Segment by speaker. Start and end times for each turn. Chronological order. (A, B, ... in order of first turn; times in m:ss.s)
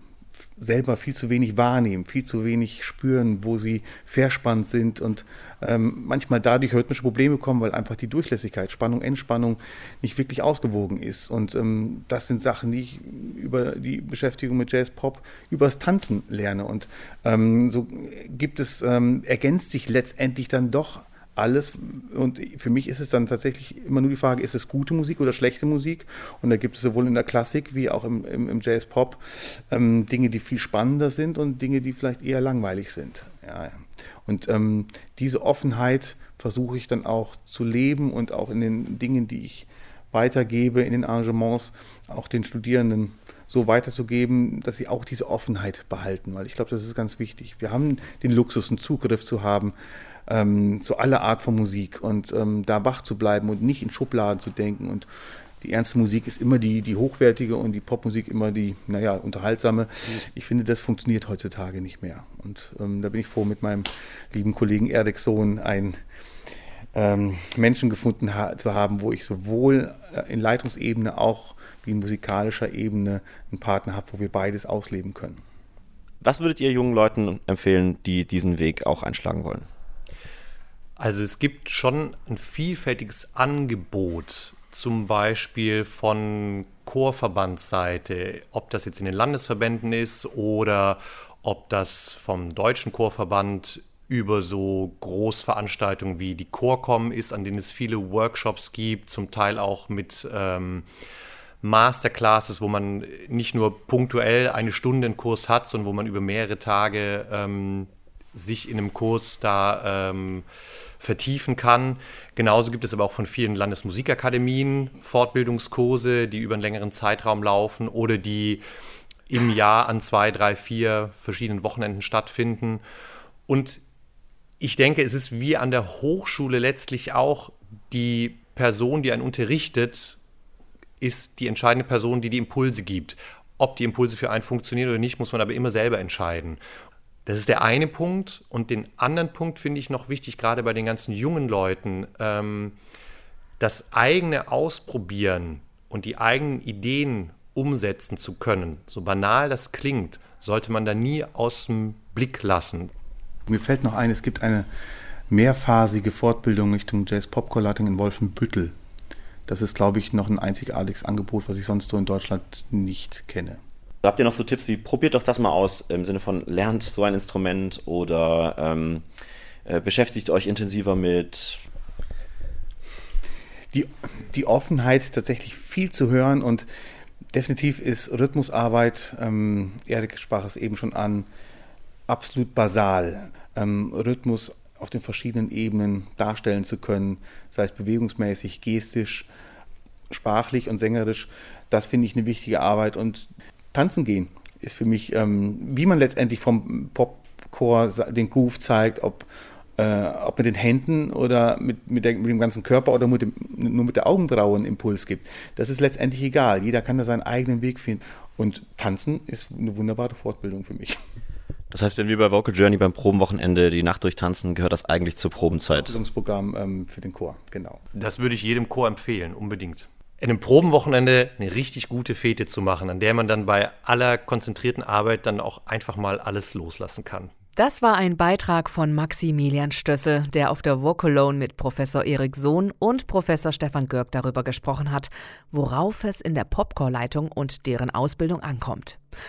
0:00.6-0:49.7 A
0:50.3-0:55.1 A
0:55.6-1:06.0 A
1:06.9-1:15.4 A
1:16.2-1:19.6 B
1:21.0-1:40.8 C
1:41.6-1:50.4 C
1:51.0-1:58.6 C
1:59.3-2:02.8 C
2:03.5-2:03.8 C
2:04.6-2:10.2 C
2:11.0-2:16.6 C
2:17.2-2:22.8 C
2:23.6-2:32.9 C
2:33.5-2:34.7 A
2:35.3-2:38.7 A
2:39.5-2:43.6 A
2:44.0-2:49.0 B
2:49.6-2:51.6 B
2:53.7-2:56.7 A
2:57.3-3:01.3 A
3:02.1-3:09.3 A
3:10.1-3:31.0 A
3:31.7-3:35.9 B
3:35.7-3:37.8 A
3:37.9-3:47.3 C
3:47.6-3:59.0 D